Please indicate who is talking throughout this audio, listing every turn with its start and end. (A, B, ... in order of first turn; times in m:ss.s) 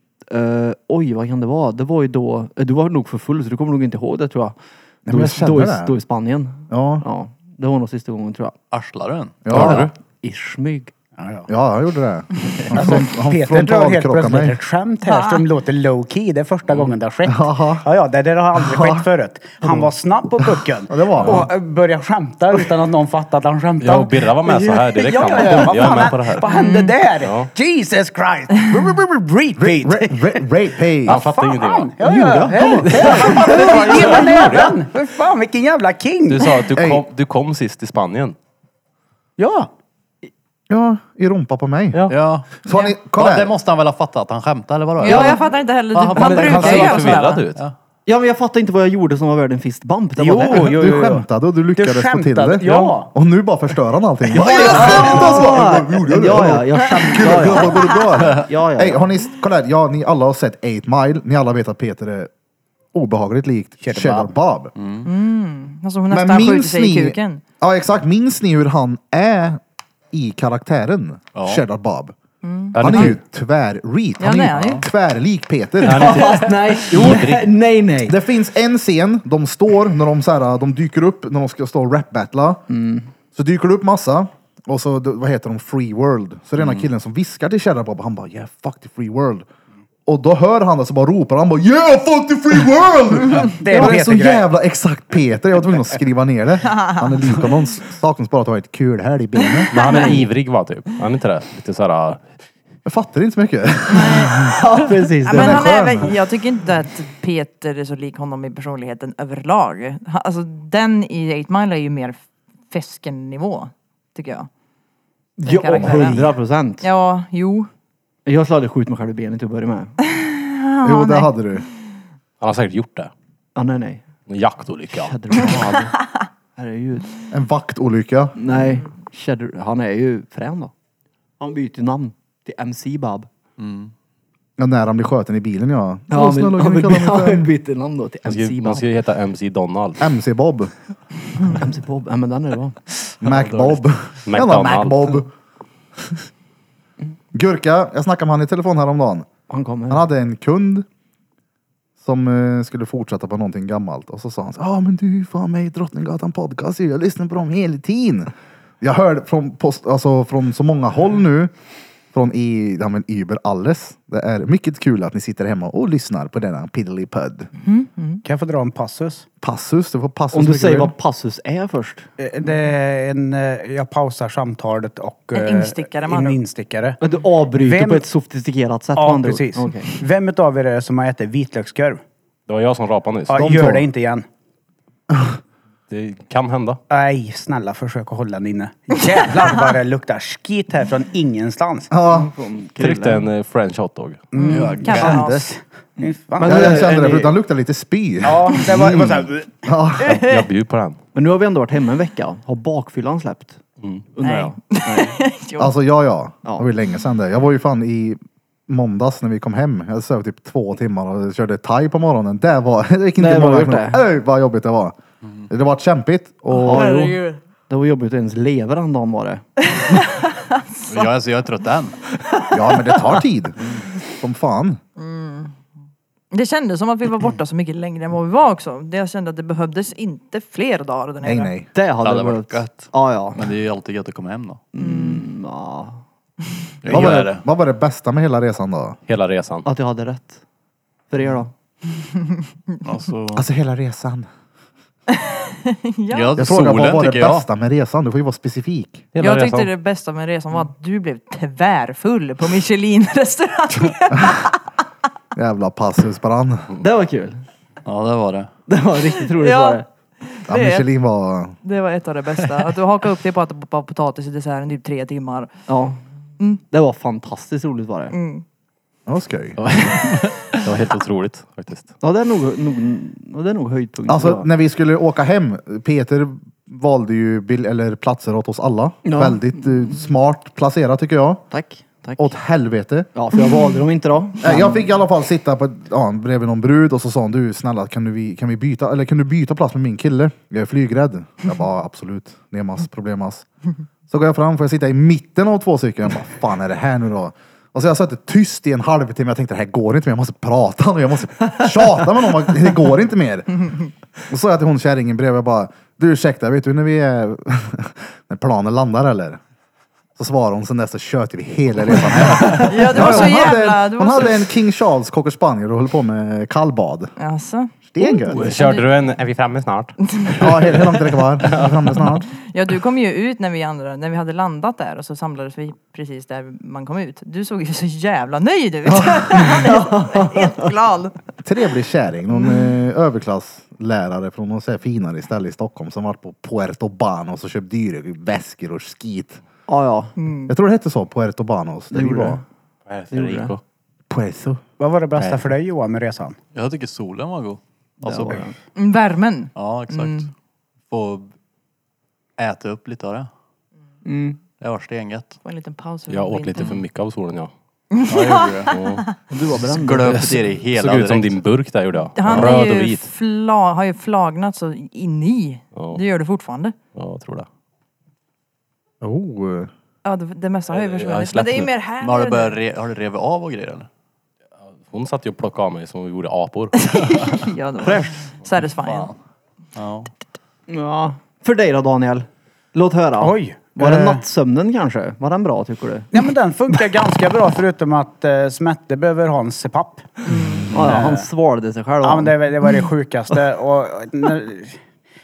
0:00.3-0:08.6 A
0:05.0-0:05.9 B
0:06.7-0:07.0 B
0:08.7-0:09.4 C
0:09.4-0:09.9 B
0:09.5-0:10.9 A
0:09.5-0:09.9 D
0:11.2-0:11.5 E
0:11.5-0:14.6 B
0:12.7-0:30.4 E
0:15.0-0:15.4 F
0:17.2-0:17.8 B
0:18.5-0:19.1 B
0:19.6-0:19.9 A
0:20.6-0:21.5 B
0:21.2-0:21.4 D
0:23.8-0:26.5 D
0:26.5-0:26.9 F
0:27.2-0:27.5 D
0:29.6-0:31.2 B
0:31.0-0:36.5 E
0:31.1-0:31.9 D
0:32.0-0:34.6 A
0:32.6-0:34.7 D
0:36.3-0:38.4 D
0:36.7-0:37.0 B
0:39.4-0:39.7 E
0:40.7-0:42.1 B
0:42.1-0:47.7 C
0:42.6-0:43.5 B
0:42.7-0:42.9 F
0:45.0-0:47.4 F
0:45.0-0:45.4 A
0:46.1-0:47.6 D
0:48.0-0:50.7 A
0:50.2-0:53.1 E
0:50.5-1:02.3 B
0:52.6-0:53.0 D
0:54.3-0:56.4 E
0:54.3-0:57.8 A
0:58.3-0:59.1 A
1:02.9-1:04.7 B
1:03.8-1:04.3 E
1:04.7-1:05.1 C
1:05.0-1:07.4 F
1:06.1-1:09.6 B
1:10.1-1:12.1 B
1:11.3-1:11.6 C
1:12.4-1:13.2 F
1:12.7-1:13.2 D
1:12.8-1:16.4 B
1:14.2-1:14.8 F
1:14.5-1:14.8 C
1:15.8-1:17.5 D
1:15.9-1:18.2 A
1:18.0-1:22.6 B
1:22.7-1:23.0 A
1:23.3-1:29.4 B
1:30.0-1:39.7 B
1:33.6-1:34.5 E
1:39.6-1:40.2 F
1:39.7-1:42.3 D
1:39.8-1:40.2 A
1:42.8-1:44.6 B
1:43.9-1:44.6 F
1:44.5-1:45.7 A
1:45.2-1:52.2 F
1:45.2-1:46.1 B
1:52.7-1:54.5 F
1:55.4-1:56.9 A
1:55.4-1:57.7 F
1:58.2-1:59.9 A
2:00.1-2:01.3 F
2:00.8-2:01.6 B
2:02.4-2:03.1 D
2:03.6-2:04.0 A
2:04.3-2:05.4 D
2:04.9-2:06.0 A
2:06.6-2:07.1 A
2:07.3-2:08.4 B
2:08.4-2:10.7 A
2:11.4-2:13.3 A
2:13.6-2:13.9 C
2:14.6-2:17.5 B
2:16.1-2:18.8 A
2:18.2-2:20.0 D
2:20.0-2:20.7 B
2:21.5-2:22.8 A
2:23.2-2:25.3 B
2:23.2-2:25.1 D
2:27.3-2:29.3 B
2:29.5-2:30.0 A
2:29.9-2:30.8 B
2:32.0-2:41.5 B
2:42.1-2:47.5 B
2:47.6-2:48.2 F
2:48.2-2:49.2 E
2:49.4-2:50.9 B
2:50.3-2:52.1 A
2:52.2-2:57.0 E
2:55.3-2:56.4 F
2:57.0-2:59.9 A
2:57.5-2:58.0 E
2:59.0-3:02.0 E
3:02.5-3:03.5 D
3:03.3-3:04.2 E
3:03.4-3:03.8 B
3:05.1-3:05.4 B
3:05.9-3:06.8 D
3:06.9-3:11.9 E
3:11.9-3:12.3 B
3:12.1-3:13.2 A
3:12.8-3:14.3 D
3:14.3-3:16.8 E
3:14.3-3:15.5 F
3:14.5-3:15.2 A
3:16.0-3:17.3 A
3:16.4-3:20.2 B
3:18.2-3:19.7 E
3:20.0-3:20.4 F
3:20.1-3:21.0 D
3:21.1-3:23.6 A
3:24.1-3:25.2 A
3:24.2-3:25.7 F
3:25.6-3:35.0 B
3:33.2-3:34.0 A
3:35.5-3:37.0 B
3:36.5-3:39.4 A
3:36.7-3:37.4 F
3:39.7-3:41.0 F
3:40.9-3:42.0 C
3:42.5-3:43.5 B
3:44.2-3:44.8 B
3:45.0-3:45.5 F
3:46.3-3:51.5 F
3:51.2-3:51.7 B
3:51.7-3:53.5 A
3:52.0-3:54.6 C
3:54.7-3:56.0 A
3:54.8-3:55.2 F
3:56.8-3:57.4 C
3:56.8-3:59.0 B
3:59.1-3:59.6 D
3:59.6-4:00.4 A
4:01.1-4:01.5 A
4:02.8-4:03.4 C
4:03.3-4:04.3 B
4:05.2-4:06.4 F
4:06.1-4:07.4 C
4:06.4-4:09.1 B
4:09.1-4:09.7 D
4:09.2-4:14.6 F
4:15.3-4:16.7 B
4:16.8-4:17.4 A
4:17.8-4:18.5 C
4:18.7-4:19.8 A
4:19.2-4:20.9 F
4:20.5-4:21.6 B
4:21.6-4:25.5 F
4:25.7-4:26.0 A
4:26.7-4:28.1 A
4:28.1-4:28.4 F
4:29.1-4:29.6 B
4:29.6-4:31.9 D
4:32.0-4:34.5 A
4:34.1-4:41.4 B
4:39.0-4:39.6 A
4:41.5-4:42.4 A
4:42.2-4:43.1 B
4:43.1-4:44.9 A
4:44.4-4:53.4 B
4:54.1-5:03.7 B
5:04.3-5:09.4 B
5:10.2-5:17.1 B
5:12.4-5:14.4 F
5:17.2-5:17.7 F
5:17.9-5:18.4 B
5:18.3-5:18.9 F
5:18.3-5:20.7 D
5:20.1-5:20.4 F
5:20.4-5:22.3 B
5:21.4-5:21.7 D
5:22.4-5:31.1 F
5:28.8-5:29.5 B
5:29.6-5:30.5 A
5:31.4-5:39.4 B
5:39.7-5:40.1 A
5:40.2-5:40.5 F
5:40.5-5:42.4 B
5:41.9-5:42.4 A
5:42.9-5:43.6 D
5:43.1-5:43.6 A
5:44.1-5:44.6 B
5:44.8-5:46.4 E
5:46.5-5:48.5 C
5:48.0-5:48.5 A
5:48.8-5:50.2 F
5:49.5-5:50.3 C
5:50.9-5:51.3 C
5:52.4-5:53.3 C
5:54.0-5:54.4 A
5:54.6-5:55.4 C
5:55.4-5:56.8 F
5:56.1-5:57.5 D
5:57.9-5:59.2 F
5:58.1-5:58.8 C
5:58.7-5:59.0 D
5:59.3-6:00.5 A
5:59.6-6:01.4 C
6:00.7-6:03.1 D
6:02.1-6:06.7 F
6:06.9-6:07.5 D
6:09.0-6:09.7 B
6:10.0-6:12.6 F
6:10.9-6:11.7 D
6:12.0-6:13.9 C
6:14.9-6:16.9 D
6:16.8-6:19.1 F
6:17.8-6:18.1 A
6:18.8-6:19.1 C
6:19.7-6:20.1 C
6:20.7-6:26.1 A
6:23.2-6:24.2 E
6:26.1-6:31.3 E
6:30.3-6:30.7 F
6:30.7-6:32.4 A
6:32.0-6:34.8 E